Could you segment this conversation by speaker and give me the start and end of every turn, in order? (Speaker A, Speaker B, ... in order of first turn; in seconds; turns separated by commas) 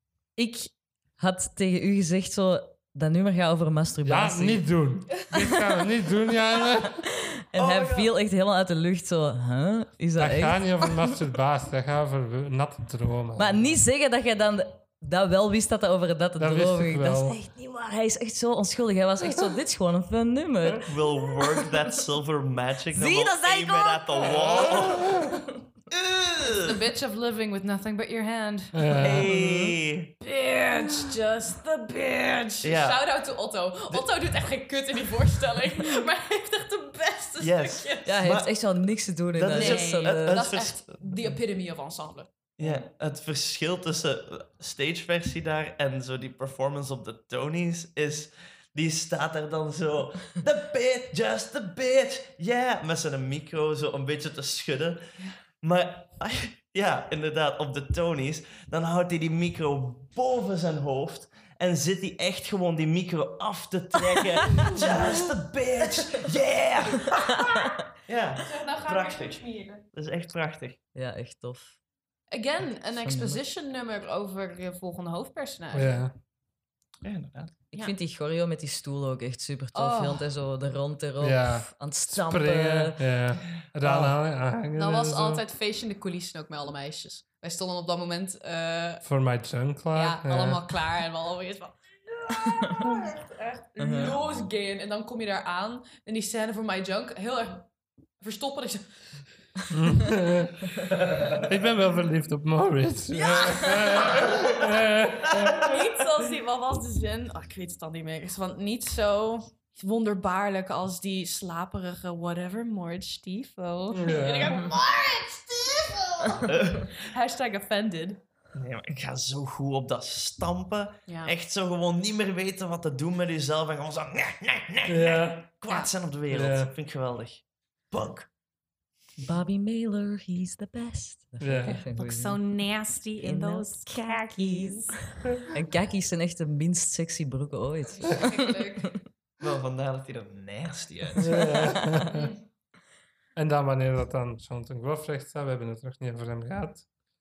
Speaker A: 0.3-4.7, Speaker B: 4.0-7.0, Speaker A: 7.0-10.8, Speaker C: 7.5-8.1, Speaker B: 10.2-13.8, Speaker A: 13.4-20.9, Speaker B: 16.4-17.4, Speaker C: 20.9-25.3, Speaker D: 22.9-24.0, Speaker C: 25.9-26.7, Speaker D: 26.6-29.1, Speaker B: 28.7-29.3, Speaker C: 29.0-30.1, Speaker A: 29.3-29.8, Speaker D: 30.2-38.1, Speaker C: 32.6-33.0, Speaker C: 37.4-38.6, Speaker A: 38.0-40.4, Speaker C: 39.3-41.4, Speaker D: 39.5-42.3, Speaker C: 42.6-67.4, Speaker C: 68.0-70.8, Speaker D: 68.5-69.8, Speaker A: 70.9-71.8, Speaker D: 72.3-76.0, Speaker A: 73.0-73.4, Speaker B: 75.7-76.2, Speaker C: 77.0-77.6, Speaker A: 77.7-83.0, Speaker D: 79.7-80.3, Speaker B: 81.2-85.4, Speaker C: 83.8-84.2, Speaker D: 84.8-89.0, Speaker B: 89.0-90.8, Speaker D: 89.9-99.2, Speaker A: 92.4-92.8, Speaker A: 93.8-94.2, Speaker B: 99.7-100.7, Speaker C: 100.9-101.3, Speaker B: 101.3-105.8, Speaker D: 103.1-104.4, Speaker D: 105.4-118.2, Speaker B: 113.9-114.7, Speaker C: 116.4-117.0, Speaker C: 118.5-128.3, Speaker D: 121.1-121.3, Speaker B: 124.9-125.5, Speaker B: 126.3-126.7, Speaker A: 129.2-132.5, Speaker B: 131.4-131.8, Speaker D: 132.0-135.1, Speaker A: 133.2-139.0, Speaker D: 138.0-139.0, Speaker C: 139.4-141.6, Speaker B: 141.2-142.3, Speaker D: 142.1-142.4, Speaker B: 143.3-146.9